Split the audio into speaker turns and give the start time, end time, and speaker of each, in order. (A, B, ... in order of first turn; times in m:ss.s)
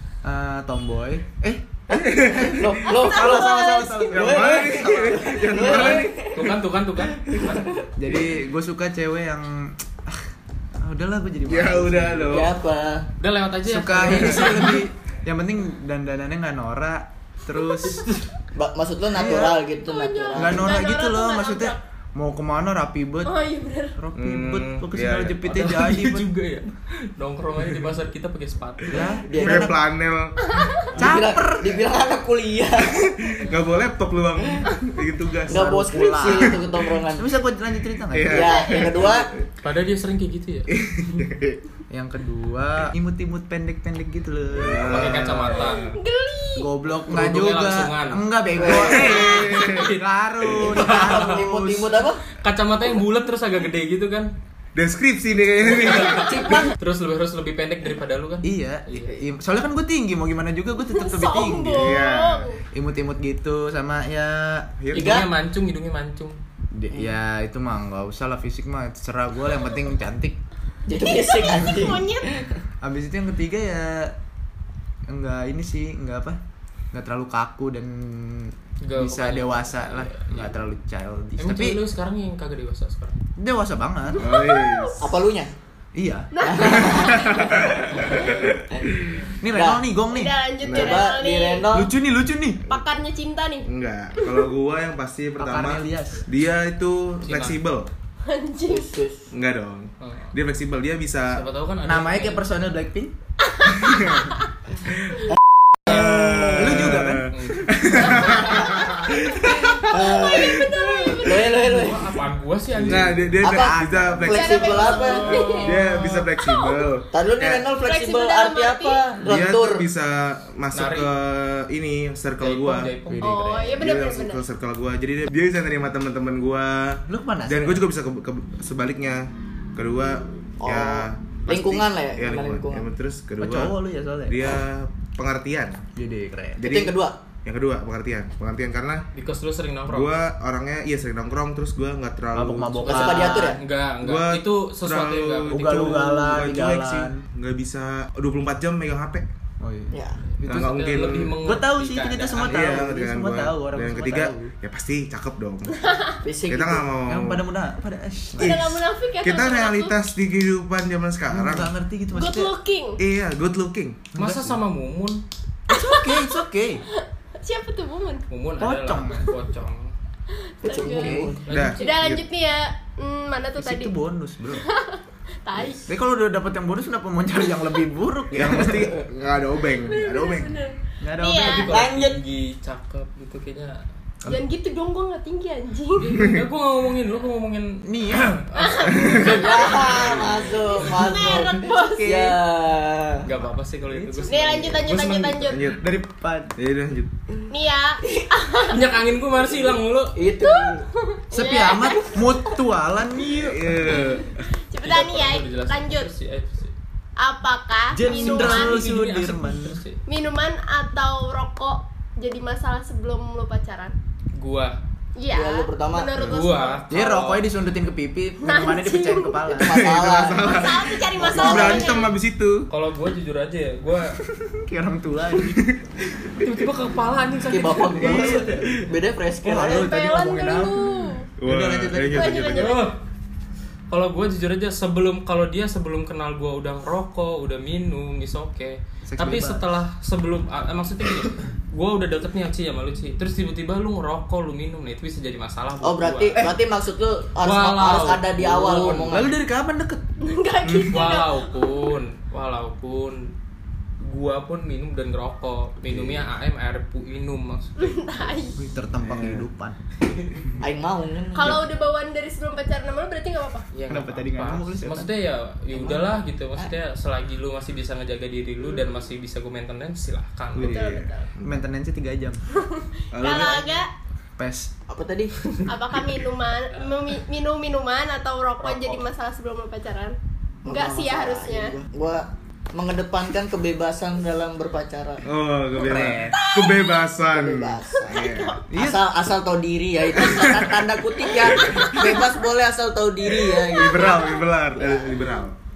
0:00.2-0:05.9 A
0:01.9-0:06.5 B
0:01.9-0:02.8 C
0:02.9-0:04.1 D
0:04.1-0:06.3 C
0:05.7-0:07.7 E
0:08.0-0:10.2 A
0:10.8-0:12.5 A
0:11.5-0:12.5 C
0:12.3-0:13.1 B
0:13.2-0:14.8 E
0:13.7-0:18.1 A
0:18.6-0:20.7 B
0:19.1-0:19.6 A
0:19.8-0:21.8 D
0:20.3-0:23.4 A
0:23.2-0:24.0 D
0:24.0-0:26.3 A
0:24.2-0:25.7 C
0:25.5-0:29.0 E
0:28.9-0:29.7 A
0:29.2-0:29.8 B
0:29.4-0:30.4 C
0:30.5-0:30.9 D
0:31.0-0:31.8 A
0:31.0-0:33.1 B
0:32.9-0:36.6 C
0:35.5-0:37.3 B
0:35.5-0:36.6 A
0:37.1-0:38.6 A
0:38.1-0:39.2 C
0:38.2-0:39.3 B
0:38.4-0:39.1 D
0:39.6-0:40.7 E
0:40.7-0:41.6 C
0:41.9-0:45.3 A
0:44.6-0:45.9 C
0:44.9-0:45.8 E
0:45.6-0:46.7 D
0:46.6-0:51.9 A
0:47.1-0:48.2 E
0:48.6-0:49.4 B
0:48.7-0:49.9 C
0:48.9-0:50.0 E
0:50.7-0:51.3 E
0:50.7-0:52.2 B
0:52.4-0:54.3 E
0:54.8-0:56.6 C
0:55.6-0:59.1 E
0:56.1-0:56.8 B
0:58.4-1:02.0 A
1:00.9-1:02.6 D
1:01.7-1:02.5 C
1:02.7-1:04.7 A
1:04.8-1:05.2 C
1:04.9-1:06.4 E
1:04.9-1:05.2 B
1:06.7-1:10.4 A
1:10.9-1:12.6 B
1:11.0-1:12.3 D
1:12.8-1:14.1 A
1:15.1-1:16.4 A
1:16.9-1:21.8 A
1:18.8-1:20.4 E
1:21.4-1:23.2 E
1:23.4-1:24.4 A
1:24.1-1:25.1 D
1:24.2-1:25.0 C
1:25.0-1:25.5 B
1:25.9-1:26.3 A
1:26.3-1:28.4 D
1:26.4-1:27.9 B
1:26.8-1:29.3 C
1:29.4-1:30.4 A
1:29.5-1:29.8 B
1:30.1-1:31.7 D
1:30.6-1:31.0 C
1:30.7-1:31.9 B
1:31.7-1:32.6 A
1:32.7-1:33.7 D
1:33.6-1:37.9 C
1:34.2-1:34.5 D
1:35.4-1:36.3 A
1:37.2-1:37.6 E
1:38.3-1:38.9 D
1:38.7-1:39.3 B
1:39.3-1:41.4 C
1:40.0-1:40.3 E
1:41.3-1:42.5 E
1:41.8-1:43.1 A
1:43.4-1:44.3 D
1:43.8-1:44.3 C
1:44.8-1:45.2 C
1:45.8-1:49.9 C
1:45.9-1:46.9 B
1:45.9-1:47.3 A
1:47.3-1:47.7 E
1:48.4-1:52.2 B
1:49.5-1:51.6 D
1:51.6-1:53.4 E
1:52.8-1:55.0 A
1:52.8-1:57.7 C
1:53.4-1:55.4 B
1:54.3-1:56.9 D
1:55.2-1:55.6 E
1:57.1-1:59.8 B
1:57.8-1:59.0 D
1:59.2-2:02.9 C
2:00.7-2:01.1 E
2:02.4-2:03.7 E
2:03.1-2:03.8 A
2:03.2-2:04.4 D
2:03.8-2:13.8 C
2:07.1-2:07.8 A
2:10.6-2:12.9 B
2:13.4-2:14.6 A
2:14.3-2:15.8 C
2:16.0-2:16.6 A
2:16.6-2:16.9 C
2:16.6-2:17.2 B
2:17.4-2:19.0 C
2:19.1-2:20.1 E
2:19.9-2:22.8 C
2:22.3-2:23.5 A
2:22.8-2:26.0 E
2:22.8-2:23.6 B
2:24.0-2:29.2 C
2:25.5-2:27.2 A
2:29.6-2:30.0 A
2:29.9-2:30.2 B
2:30.4-2:32.6 E
2:30.4-2:31.4 C
2:31.4-2:34.5 A
2:32.4-2:35.9 C
2:35.8-2:36.2 D
2:36.2-2:36.9 B
2:36.5-2:37.4 C
2:37.1-2:38.6 A
2:38.4-2:41.7 C
2:38.4-2:39.9 D
2:41.3-2:42.5 A
2:42.1-2:43.0 D
2:43.0-2:44.1 C
2:44.2-2:44.6 A
2:44.2-2:45.2 E
2:45.7-2:46.8 A
2:45.7-2:46.3 D
2:47.4-2:48.2 D
2:48.3-2:49.9 E
2:48.6-2:49.3 A
2:50.6-2:53.9 D
2:50.6-2:51.5 B
2:50.8-2:51.4 A
2:51.4-2:52.2 E
2:51.5-2:52.2 C
2:53.6-2:54.7 A
2:54.6-2:55.9 D
2:55.8-2:58.9 A
2:58.3-3:00.6 C
2:59.7-3:01.7 D
3:01.0-3:01.7 A
3:01.3-3:03.8 E
3:01.6-3:02.2 B
3:04.3-3:06.1 D
3:06.0-3:10.6 E
3:07.8-3:08.3 A
3:08.6-3:12.3 D
3:08.9-3:09.2 C
3:09.2-3:13.3 B
3:11.6-3:12.4 A
3:13.2-3:15.3 E
3:14.3-3:15.8 D
3:14.9-3:15.8 C
3:15.8-3:16.5 A
3:16.6-3:17.1 C
3:17.5-3:18.8 D
3:18.7-3:20.2 E
3:20.2-3:20.8 B
3:20.4-3:22.3 D
3:21.3-3:24.0 A
3:23.4-3:24.4 C
3:24.7-3:26.1 D
3:24.8-3:26.7 E
3:27.2-3:28.8 D
3:27.9-3:29.8 A
3:28.1-3:30.0 E
3:30.1-3:33.9 D
3:34.4-3:34.8 E
3:35.2-3:36.8 D
3:35.3-3:36.2 B
3:36.3-3:37.4 E
3:36.9-3:39.9 A
3:38.4-3:39.6 D
3:39.6-3:40.6 B
3:39.7-3:42.7 C
3:40.4-3:42.1 D
3:41.2-3:42.1 B
3:42.7-3:44.2 E
3:44.4-3:45.6 A
3:46.4-3:48.5 E
3:47.5-3:49.9 B
3:48.0-3:48.7 A
3:48.2-3:48.8 C
3:49.4-3:52.5 A
3:49.5-3:51.3 D
3:51.4-3:52.8 C
3:52.1-3:52.9 D
3:52.5-3:53.0 E
3:53.9-4:06.4 E
3:59.1-3:59.6 A
4:05.8-4:09.4 B
4:07.4-4:09.1 E
4:09.1-4:10.0 A
4:10.2-4:11.5 D
4:10.9-4:13.3 E
4:14.0-4:18.5 E
4:17.8-4:18.6 D
4:18.6-4:19.8 A
4:19.0-4:19.4 C
4:20.6-4:21.6 B
4:21.3-4:23.7 D
4:23.7-4:30.9 E
4:23.9-4:25.1 A
4:25.7-4:26.8 B
4:30.6-4:31.6 C
4:30.6-4:31.3 D
4:31.4-4:32.4 A
4:32.6-4:33.9 D
4:33.1-4:33.8 C
4:34.4-4:34.7 A
4:34.9-4:35.6 B
4:35.7-4:40.2 D
4:40.6-4:45.2 B
4:40.7-4:41.8 D
4:45.2-4:48.7 C
4:45.8-4:46.4 A
4:46.3-4:47.0 D
4:47.3-4:55.2 B
4:48.0-4:48.6 D
4:48.7-4:49.0 A
4:50.2-4:50.8 C
4:51.4-4:52.2 C
4:51.4-4:52.2 D
4:53.7-4:54.4 D
4:53.7-4:55.6 C